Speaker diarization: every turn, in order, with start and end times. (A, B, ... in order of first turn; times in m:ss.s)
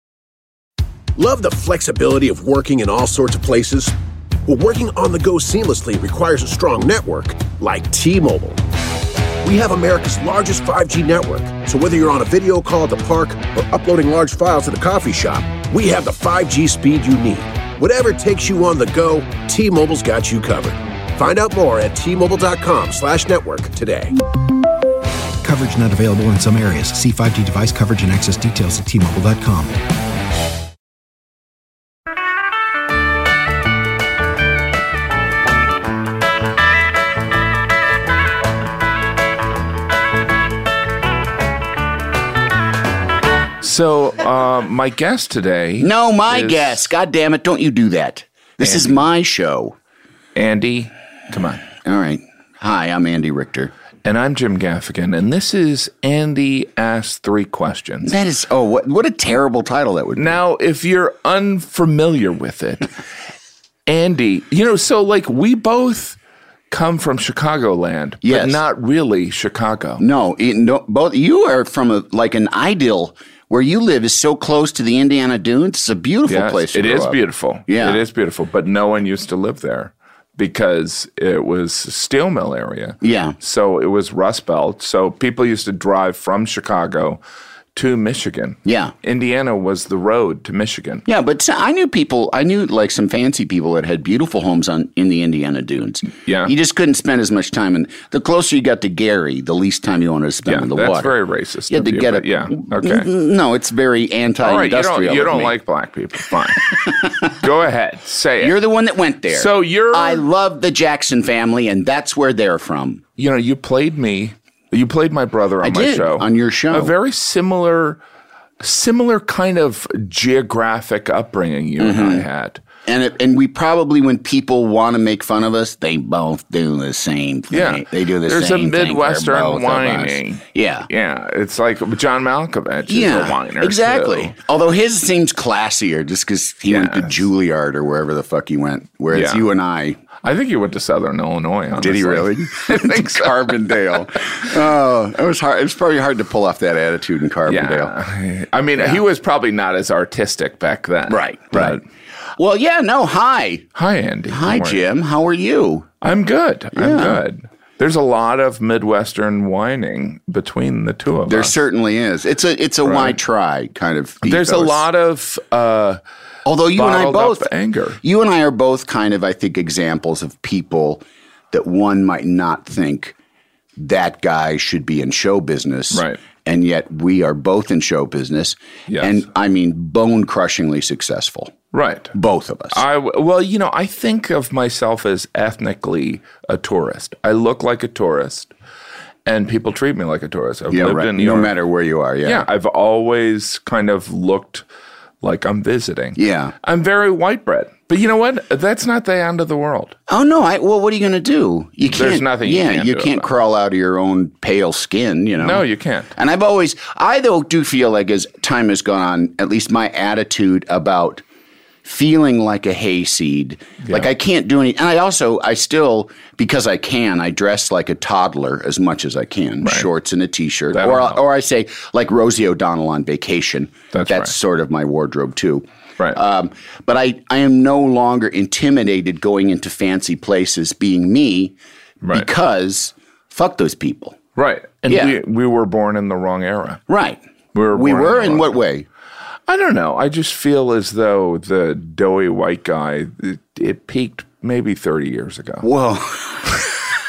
0:01.2-0:03.9 A
0:04.4-0:08.6 A
0:09.4-0:24.1 A
0:25.4-0:29.8 B
0:43.6-0:46.8 C
0:45.8-0:49.8 D
0:48.6-0:49.0 C
0:50.3-0:51.6 C
0:51.8-0:53.7 D
0:54.0-0:58.1 C
0:58.0-1:00.4 D
1:00.2-1:02.9 C
1:03.9-1:06.2 C
1:06.7-1:10.0 C
1:08.2-1:08.6 D
1:10.0-1:18.0 D
1:16.2-1:27.2 C
1:23.0-1:23.4 D
1:27.7-1:31.0 C
1:28.6-1:28.9 D
1:31.0-1:41.1 D
1:36.2-1:36.5 C
1:40.4-1:43.1 C
1:41.7-1:45.5 D
1:44.4-1:48.6 C
1:46.7-1:47.3 D
1:48.4-1:53.0 D
1:49.3-1:50.2 C
1:53.2-1:58.0 C
1:55.6-1:56.9 D
1:58.6-2:02.6 C
2:01.8-2:02.2 D
2:02.8-2:10.9 D
2:07.5-2:14.4 C
2:12.9-2:20.0 D
2:16.7-2:17.2 C
2:19.1-2:19.4 C
2:20.2-2:23.8 C
2:21.8-2:27.9 D
2:27.5-2:31.8 C
2:28.8-2:29.0 D
2:31.1-2:31.8 D
2:32.4-2:33.7 D
2:33.7-2:34.8 C
2:34.3-2:35.9 D
2:36.0-2:41.5 C
2:36.7-2:37.2 D
2:41.3-2:44.8 D
2:42.8-2:43.2 C
2:44.2-2:46.0 C
2:46.4-2:47.5 D
2:46.7-2:48.0 C
2:48.0-2:53.1 D
2:53.8-3:01.5 D
2:55.9-2:56.2 C
2:58.9-2:59.2 C
3:01.7-3:02.1 C
3:02.1-3:02.8 D
3:02.7-3:08.5 C
3:09.2-3:11.5 C
3:10.7-3:12.4 D
3:12.2-3:14.6 C
3:15.2-3:19.9 C
3:16.2-3:16.5 D
3:20.1-3:31.2 D
3:21.9-3:23.3 C
3:25.4-3:26.1 C
3:31.8-3:51.5 D
3:39.6-3:39.9 C
3:40.7-3:41.2 C
3:43.9-3:44.3 C
3:52.0-3:52.3 C
3:52.1-3:54.2 D
3:54.4-3:56.8 C
3:54.8-3:55.2 D
3:56.9-3:57.2 D
3:57.5-3:58.5 C
3:57.7-3:58.8 D
3:59.5-4:05.6 C
4:05.6-4:06.9 D